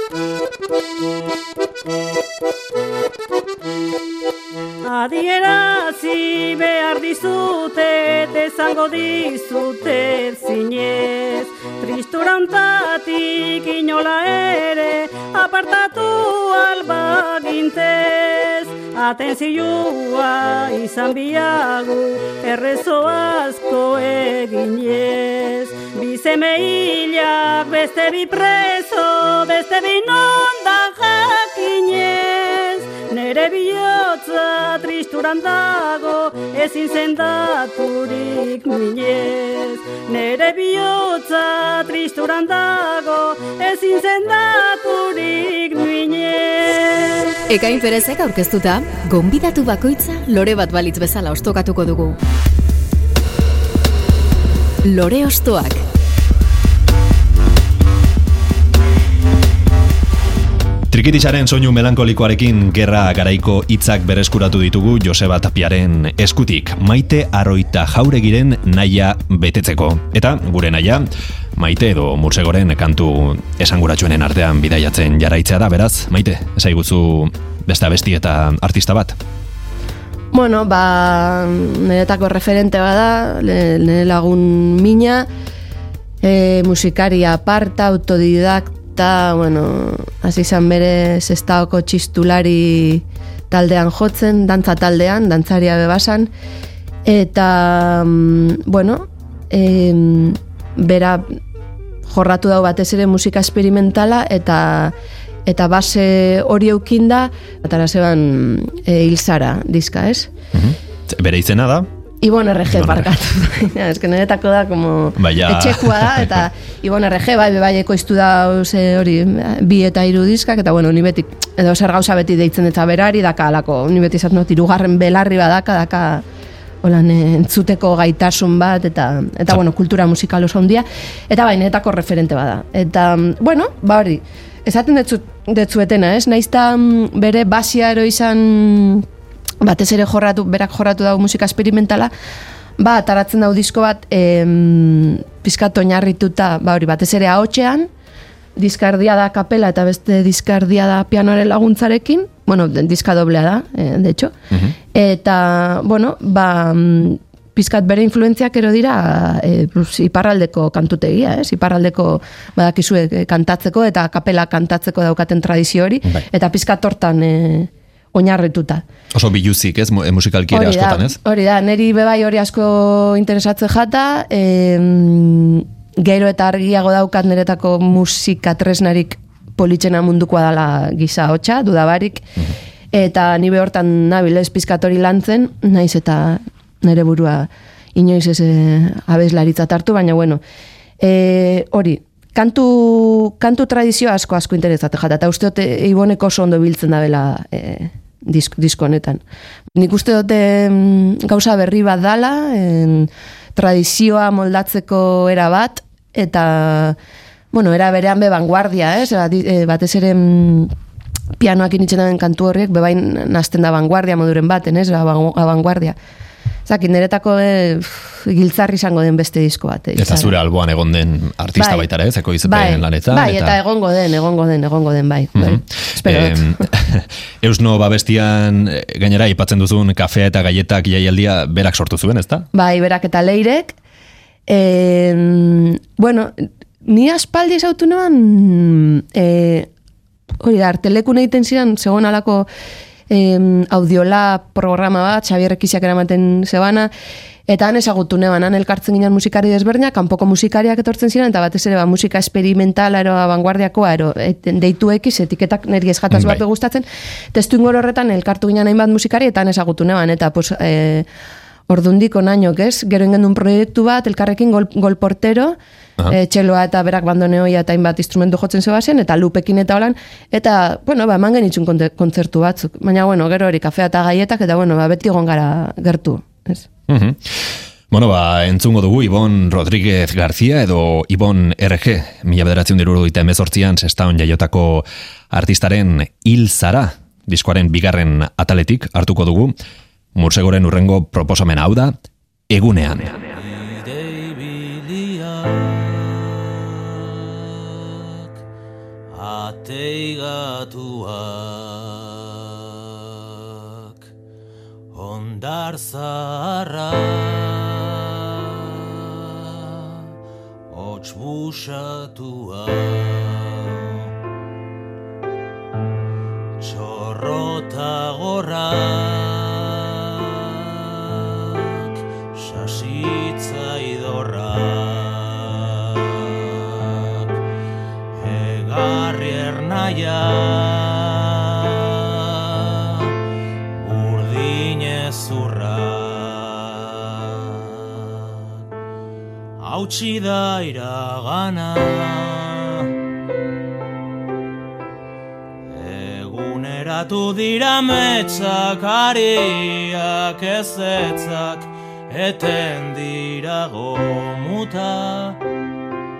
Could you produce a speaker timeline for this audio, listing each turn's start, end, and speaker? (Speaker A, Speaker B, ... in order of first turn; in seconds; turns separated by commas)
Speaker A: 4.8-47.0, Speaker B: 47.5-52.2, Speaker B: 54.8-55.8, Speaker C: 60.9-79.2, Speaker D: 80.3-85.3, Speaker D: 86.2-96.3, Speaker D: 97.0-101.4, Speaker D: 102.1-104.9, Speaker D: 105.5-110.3, Speaker C: 110.5-111.9, Speaker D: 112.2-126.2, Speaker C: 112.7-113.1, Speaker C: 115.2-116.5, Speaker D: 126.8-139.1, Speaker D: 139.6-142.1, Speaker D: 142.8-147.9, Speaker D: 148.6-154.3, Speaker D: 154.9-168.8, Speaker C: 169.1-171.2, Speaker D: 170.5-182.3, Speaker D: 182.9-190.4, Speaker D: 191.0-199.2, Speaker D: 199.7-207.0, Speaker D: 207.5-210.7, Speaker D: 211.4-215.9, Speaker D: 216.7-220.3, Speaker C: 219.9-223.6, Speaker D: 221.6-221.9, Speaker D: 222.4-226.7, Speaker C: 225.3-232.5, Speaker D: 232.5-233.8, Speaker D: 234.5-239.7, Speaker D: 240.4-242.5, Speaker D: 243.1-246.9, Speaker D: 247.5-261.1, Speaker C: 256.1-256.4, Speaker D: 261.7-265.6, Speaker D: 266.1-276.6, Speaker C: 276.9-289.5, Speaker C: 290.1-292.0, Speaker C: 292.5-293.2, Speaker E: 293.4-296.5, Speaker E: 299.1-302.4, Speaker E: 303.5-303.9, Speaker E: 304.9-308.0, Speaker E: 310.7-313.8, Speaker E: 316.6-321.6, Speaker E: 322.3-327.0, Speaker E: 328.2-331.7, Speaker E: 333.8-337.5, Speaker E: 339.6-342.8, Speaker E: 345.7-355.4